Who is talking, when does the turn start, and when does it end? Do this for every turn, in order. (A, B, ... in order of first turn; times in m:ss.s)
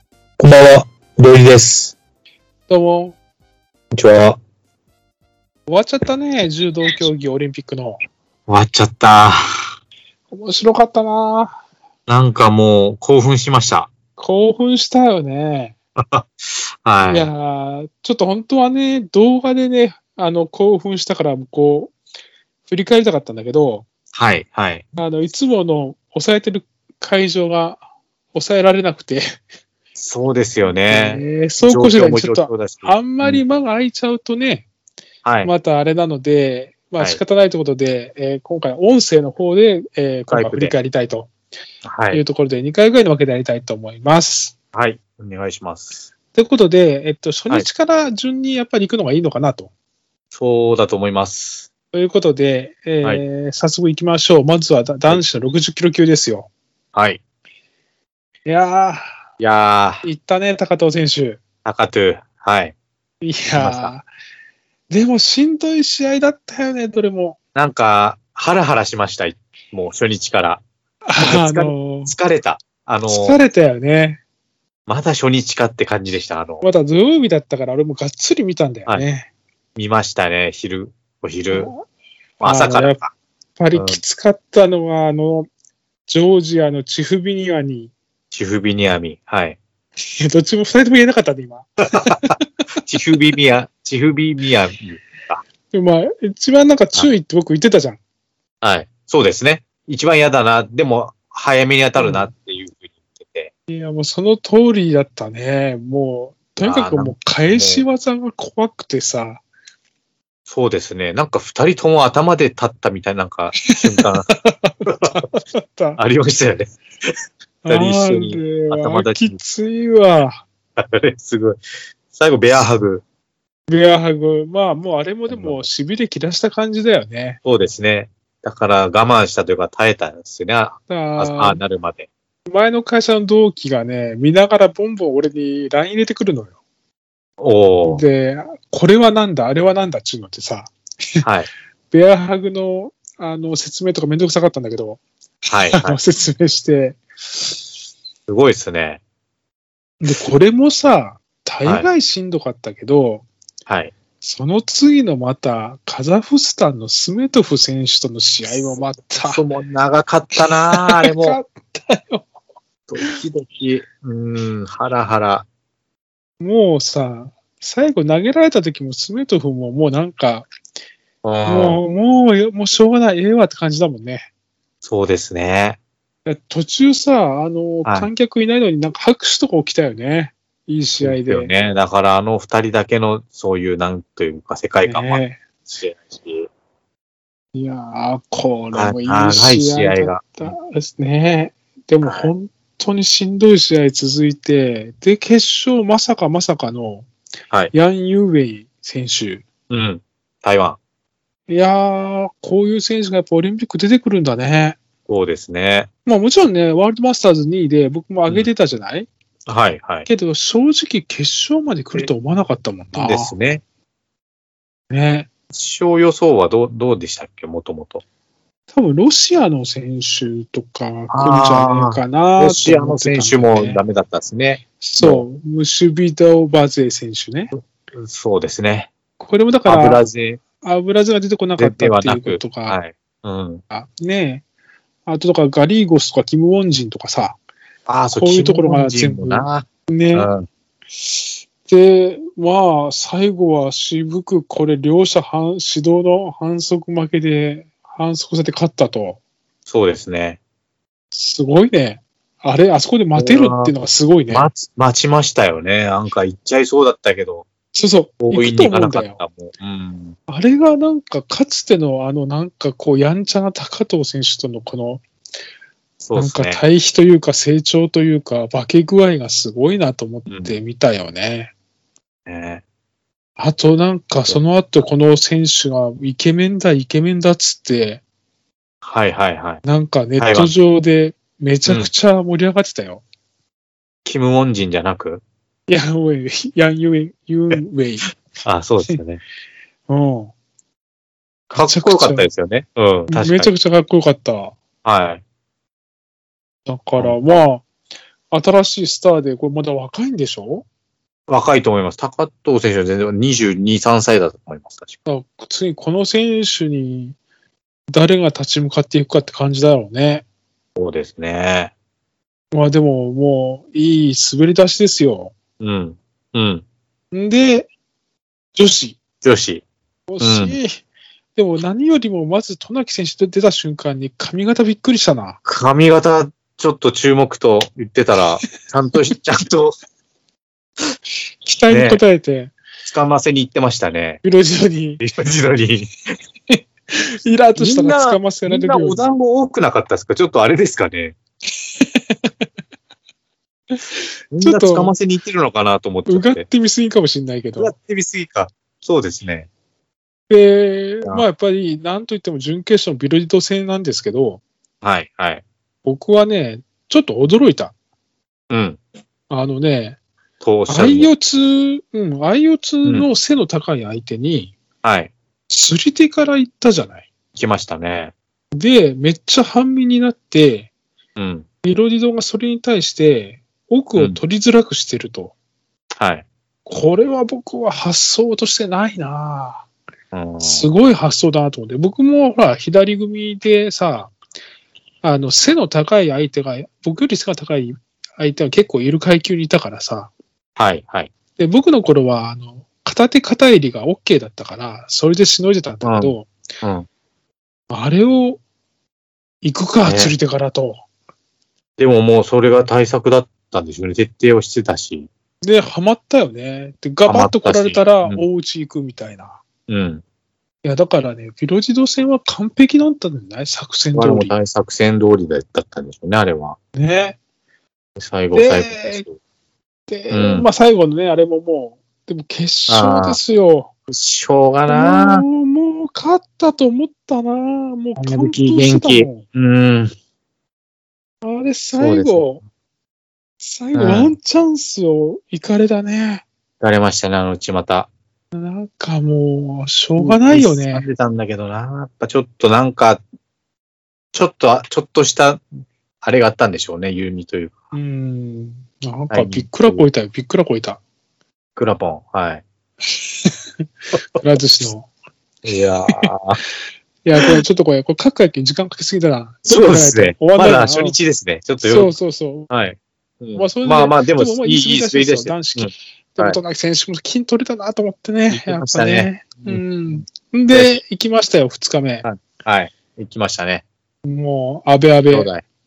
0:00.4-0:01.9 A
0:02.7-0:03.2 B
0:03.9-0:04.4 A
0:05.7-0:08.0 B
0:08.5-0:09.6 A
0:10.3-0:11.6 B
0:12.1-0:13.9 A
0:14.2-0:15.7 B
0:16.0-0:17.3 A
0:17.1-0:21.9 B
0:22.7-0:23.8 B
0:24.1-0:24.8 A
0:25.0-0:27.8 B
0:28.3-0:29.4 B
0:30.0-0:33.4 A
0:30.9-0:34.7 B
0:35.2-0:35.5 A
0:35.4-0:41.3 B
0:40.3-0:40.7 A
0:41.8-0:42.2 A
0:42.1-0:44.5 B
0:44.7-0:46.0 A
0:46.3-0:49.7 B
0:50.3-0:51.7 A
0:51.9-0:56.5 B
0:56.9-0:57.2 A
0:58.4-0:59.0 B
0:59.4-1:00.1 A
1:00.0-1:01.4 B
1:01.6-1:02.7 A
1:03.2-1:04.1 B
1:03.5-1:03.9 A
1:04.9-1:07.4 B
1:07.5-1:10.6 A
1:11.1-1:12.1 B
1:11.2-1:13.4 A
1:13.1-1:14.2 B
1:14.9-1:16.6 A
1:16.6-1:19.3 B
1:19.8-1:21.7 A
1:21.5-1:21.8 B
1:22.4-1:23.1 A
1:22.4-1:23.0 B
1:23.6-1:25.5 B
1:23.7-1:24.0 A
1:26.1-1:27.9 B
1:28.3-1:29.6 A
1:30.0-1:32.4 B
1:32.0-1:35.4 A
1:35.7-1:38.0 B
1:38.6-1:43.5 A
1:42.0-1:42.3 B
1:43.7-1:49.4 B
1:46.6-1:47.8 A
1:50.5-1:54.3 A
1:53.6-1:56.0 B
1:54.8-1:55.2 A
1:56.0-1:56.8 A
1:57.6-2:00.4 B
1:57.7-1:59.4 A
2:00.8-2:03.0 A
2:03.7-2:07.4 B
2:05.3-2:05.7 A
2:07.4-2:12.1 A
2:10.9-2:11.6 B
2:12.4-2:16.5 B
2:17.4-2:18.0 A
2:17.8-2:21.2 B
2:21.2-2:21.5 A
2:21.9-2:25.0 B
2:25.4-2:26.0 A
2:25.7-2:27.5 B
2:28.3-2:29.0 A
2:30.0-2:33.2 B
2:33.7-2:33.9 A
2:34.2-2:39.4 B
2:39.2-2:41.4 A
2:40.4-2:42.2 B
2:42.9-2:45.4 A
2:46.4-2:50.5 B
2:51.2-2:51.8 A
2:51.4-2:54.3 B
2:54.8-2:55.8 A
2:56.2-3:01.5 B
2:57.8-2:58.1 A
3:01.0-3:06.5 A
3:04.8-3:05.4 B
3:07.5-3:17.1 B
3:08.7-3:10.5 A
3:12.0-3:12.3 A
3:17.7-3:19.4 B
3:19.7-3:20.8 A
3:21.5-3:24.8 B
3:25.1-3:25.9 A
3:26.0-3:29.1 B
3:29.4-3:30.1 A
3:30.1-3:33.3 B
3:33.0-3:33.6 A
3:34.9-3:35.3 B
3:35.5-3:38.0 A
3:38.7-3:43.8 B
3:41.1-3:45.2 A
3:44.8-3:47.5 B
3:47.5-3:48.9 A
3:49.2-3:50.0 B
3:49.6-3:50.4 A
3:50.6-3:52.8 B
3:51.6-3:53.6 A
3:53.7-3:54.4 B
3:55.0-3:57.4 B
3:57.9-4:00.5 A
3:58.1-4:00.3 B
4:01.6-4:09.2 B
4:09.7-4:10.4 A
4:11.1-4:14.5 B
4:13.2-4:13.7 A
4:14.3-4:17.4 A
4:17.7-4:19.2 B
4:18.2-4:20.2 A
4:20.3-4:25.0 B
4:26.0-4:26.6 A
4:26.1-4:31.5 B
4:30.3-4:30.6 A
4:32.2-4:32.6 A
4:33.4-4:38.0 B
4:38.8-4:39.6 A
4:39.6-4:43.0 B
4:40.2-4:40.5 A
4:44.0-4:45.2 A
4:45.7-4:48.1 B
4:48.4-4:49.2 A
4:49.9-4:50.3 B
4:51.5-4:52.3 B
4:51.5-4:53.5 A
4:53.1-4:54.5 B
4:54.8-4:55.2 A
4:56.6-4:57.6 B
4:58.3-5:00.6 B
5:01.3-5:05.0 A
5:05.0-5:07.2 B
5:07.9-5:10.2 B
5:10.8-5:11.7 A
5:12.5-5:15.3 B
5:15.6-5:16.6 A
5:17.1-5:17.7 B
5:18.5-5:19.0 B
5:19.2-5:19.6 A
5:20.1-5:20.8 B
5:20.2-5:20.6 A
5:21.4-5:25.4 B
5:25.4-5:29.8 A
5:31.4-5:32.5 B
5:31.7-5:32.0 A
5:32.8-5:34.2 A
5:34.2-5:35.0 B
5:35.0-5:35.9 A
5:36.5-5:39.1 B
5:37.6-5:41.2 A
5:41.7-5:42.3 B
5:43.7-5:44.9 B
5:44.3-5:46.4 A
5:46.1-5:47.7 B
5:47.6-5:49.5 A
5:50.3-5:54.4 B
5:54.8-5:55.4 A
5:55.8-5:57.7 B
5:58.5-5:58.8 A
5:59.3-6:00.0 B
6:00.4-6:01.1 A
6:00.7-6:04.5 B
6:04.8-6:05.1 A
6:05.5-6:07.1 B
6:07.4-6:08.1 A
6:08.5-6:10.7 B
6:11.2-6:11.4 A
6:11.6-6:15.3 B
6:16.0-6:16.2 A
6:16.6-6:19.6 B
6:20.1-6:20.7 A
6:20.4-6:24.1 B
6:25.0-6:30.1 B
6:30.6-6:31.1 A
6:31.4-6:36.3 B
6:35.8-6:36.9 A
6:37.7-6:38.4 B
6:39.4-6:40.8 B
6:39.8-6:40.1 A
6:41.8-6:45.1 A
6:45.4-6:49.4 B
6:47.0-6:48.2 A
6:49.7-6:50.0 A
6:50.6-6:54.4 B
6:53.9-6:56.6 A
6:56.7-6:57.2 B
6:58.0-6:59.1 A
6:58.3-6:59.0 B
6:59.9-7:03.7 B
7:00.1-7:00.5 A
7:02.7-7:03.2 A
7:03.9-7:05.2 A
7:04.7-7:09.2 B
7:08.0-7:09.9 A
7:11.2-7:12.4 B
7:11.8-7:12.3 A
7:13.4-7:16.2 B
7:13.7-7:14.1 A
7:16.6-7:17.9 A
7:18.3-7:20.9 B
7:20.0-7:23.0 A
7:24.1-7:25.4 A
7:26.0-7:27.6 A
7:27.7-7:30.8 B
7:29.1-7:29.8 A
7:31.6-7:32.4 A
7:33.0-7:33.3 B
7:34.2-7:34.9 B
7:35.4-7:36.4 A
7:37.0-7:41.0 B
7:39.5-7:41.9 A
7:41.6-7:42.5 B
7:42.5-7:46.4 A
7:43.3-7:52.0 B
7:48.3-7:49.6 A
7:50.5-7:50.8 A
7:52.0-7:53.6 A
7:54.0-7:55.3 B
7:55.1-7:55.4 A